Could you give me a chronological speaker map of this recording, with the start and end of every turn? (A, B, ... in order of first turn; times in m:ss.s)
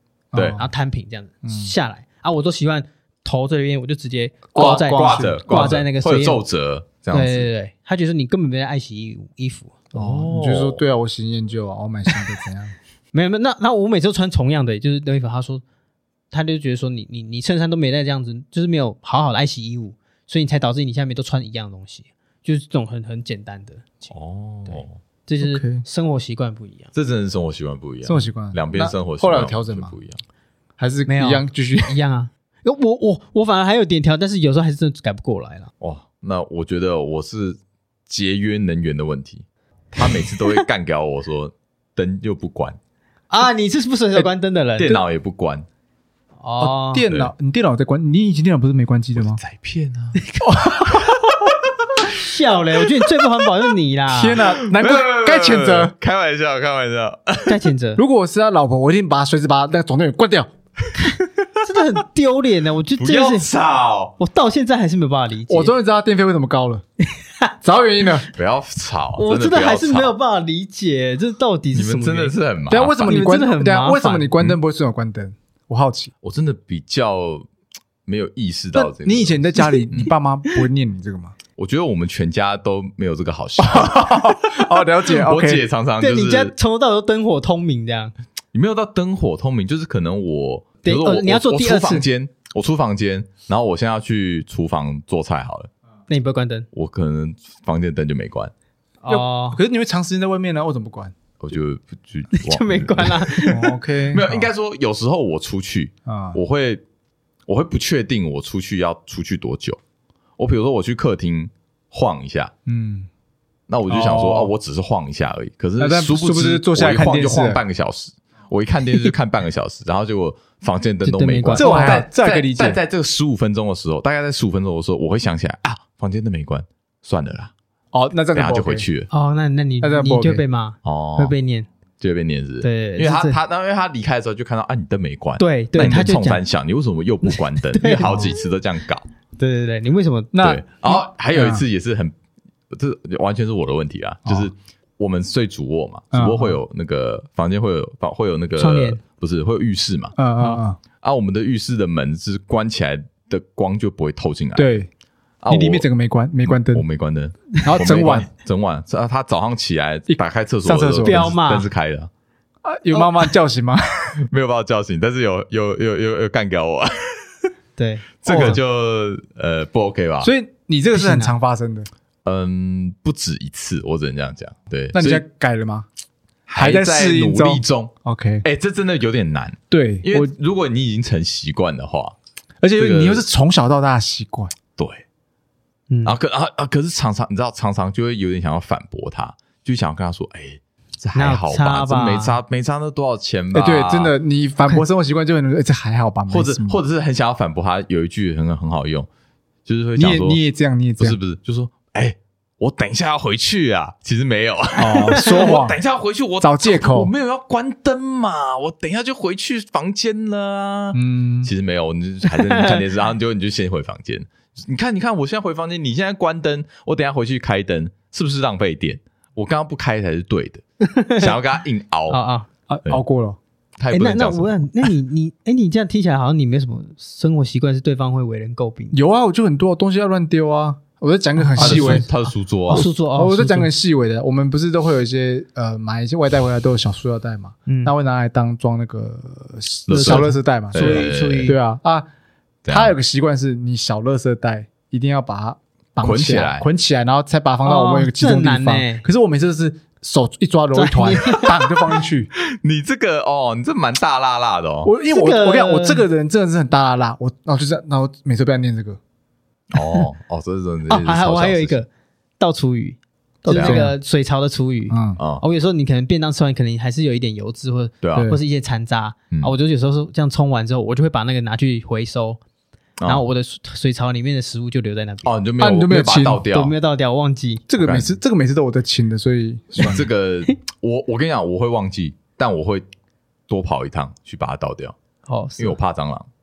0:00.3-0:00.7 A
0:00.6-0:06.4 B
0:01.4-0:01.7 A
0:04.5-0:05.7 A
0:04.5-0:07.5 C
0:07.1-0:09.8 B
0:09.9-0:12.7 A
0:09.9-0:10.8 C
0:13.1-0:15.6 B
0:16.3-0:24.1 B
0:24.1-0:25.0 C
0:24.7-0:26.9 B
0:25.4-0:25.8 A
0:26.9-0:30.2 C
0:28.0-0:29.9 A
0:30.8-0:32.0 A
0:31.1-0:35.7 B
0:35.8-0:42.8 C
0:40.0-0:40.6 B
0:43.3-0:45.0 B
0:44.8-0:45.6 C
0:46.4-0:47.0 B
0:46.6-0:49.4 A
0:49.2-0:50.2 C
0:50.2-0:50.9 B
0:50.4-0:51.2 A
0:52.1-0:54.4 B
0:54.1-0:55.9 A
0:54.5-0:57.6 C
0:57.4-0:58.0 B
0:58.0-1:00.5 A
1:00.9-1:03.5 B
1:03.0-1:04.1 C
1:04.2-1:05.7 B
1:05.5-1:06.8 A
1:07.2-1:07.5 B
1:07.6-1:08.3 A
1:08.3-1:10.1 C
1:09.2-1:12.4 B
1:11.7-1:13.2 C
1:12.7-1:16.1 A
1:13.0-1:14.3 B
1:16.2-1:17.5 C
1:18.0-1:20.1 C
1:18.7-1:21.3 A
1:21.6-1:26.5 C
1:23.6-1:25.7 A
1:26.0-1:28.1 B
1:28.5-1:35.7 C
1:30.8-1:32.1 B
1:36.1-1:36.6 B
1:36.7-1:38.5 C
1:39.0-1:39.6 B
1:39.1-1:41.1 A
1:41.4-1:46.8 C
1:42.3-1:43.6 B
1:43.5-1:44.5 A
1:46.0-1:46.4 A
1:47.5-1:49.8 C
1:50.4-1:52.5 C
1:52.6-1:53.1 A
1:53.7-2:07.5 C
1:53.9-1:54.5 A
1:55.8-1:57.6 A
2:01.0-2:02.0 B
2:01.5-2:02.8 A
2:07.9-2:08.8 A
2:08.3-2:09.1 C
2:09.1-2:11.7 B
2:09.8-2:10.4 A
2:10.8-2:11.3 C
2:12.0-2:19.0 C
2:12.6-2:13.4 B
2:15.4-2:16.4 B
2:15.8-2:16.1 A
2:17.2-2:18.4 B
2:18.1-2:18.3 A
2:19.4-2:20.3 B
2:20.3-2:21.6 A
2:20.4-2:22.1 C
2:22.7-2:30.2 C
2:26.1-2:26.6 A
2:28.6-2:29.0 B
2:30.2-2:30.8 A
2:31.0-2:34.7 C
2:34.5-2:34.9 A
2:35.4-2:35.8 C
2:35.5-2:36.8 A
2:36.5-2:42.1 C
2:37.6-2:38.3 A
2:40.1-2:41.3 A
2:41.0-2:41.7 B
2:42.6-2:44.2 A
2:44.3-2:47.3 C
2:47.8-2:48.6 B
2:48.2-2:50.3 C
2:48.2-2:48.6 A
2:50.2-2:51.9 A
2:50.9-2:51.3 B
2:52.2-2:55.2 C
2:54.9-2:55.9 A
2:56.5-3:02.1 C
2:56.6-2:58.4 A
2:59.7-3:00.3 A
3:02.6-3:04.5 A
3:02.8-3:03.2 C
3:04.8-3:05.0 C
3:05.9-3:06.1 B
3:06.0-3:14.1 C
3:11.1-3:12.4 B
3:13.5-3:16.8 A
3:16.3-3:19.1 C
3:19.6-3:20.4 C
3:20.0-3:21.2 A
3:21.0-3:40.6 C
3:24.8-3:25.8 A
3:25.1-3:25.6 B
3:26.4-3:27.1 A
3:30.9-3:31.5 A
3:32.3-3:32.8 B
3:40.8-3:41.4 B
3:41.1-3:42.2 C
3:42.1-3:42.5 B
3:42.7-3:43.4 A
3:43.8-3:44.9 C
3:43.9-3:49.0 B
3:48.9-3:52.0 A
3:51.4-3:53.7 B
3:51.6-3:52.9 C
3:52.7-4:02.1 A
3:57.7-3:57.9 B
3:59.9-4:01.5 C
3:59.9-4:01.6 B
4:02.6-4:02.9 C
4:02.7-4:12.3 A
4:06.0-4:06.7 C
4:07.6-4:09.0 B
4:10.7-4:11.6 B
4:12.4-4:14.9 C
4:14.8-4:19.0 A
4:15.1-4:16.0 B
4:19.7-4:21.8 C
4:19.7-4:20.0 B
4:20.9-4:21.9 B
4:22.4-4:32.4 B
4:23.5-4:23.9 C
4:23.5-4:23.9 A
4:24.9-4:25.2 A
4:25.2-4:25.4 C
4:28.0-4:28.3 C
4:28.1-4:28.4 A
4:33.0-4:35.3 B
4:35.2-4:36.7 C
4:35.6-4:36.4 A
4:36.5-4:37.6 B
4:37.7-4:40.1 A
4:37.8-4:38.1 C
4:39.8-4:40.6 B
4:39.8-4:42.8 C
4:43.5-4:44.9 C
4:45.2-4:45.8 B
4:45.6-4:46.3 C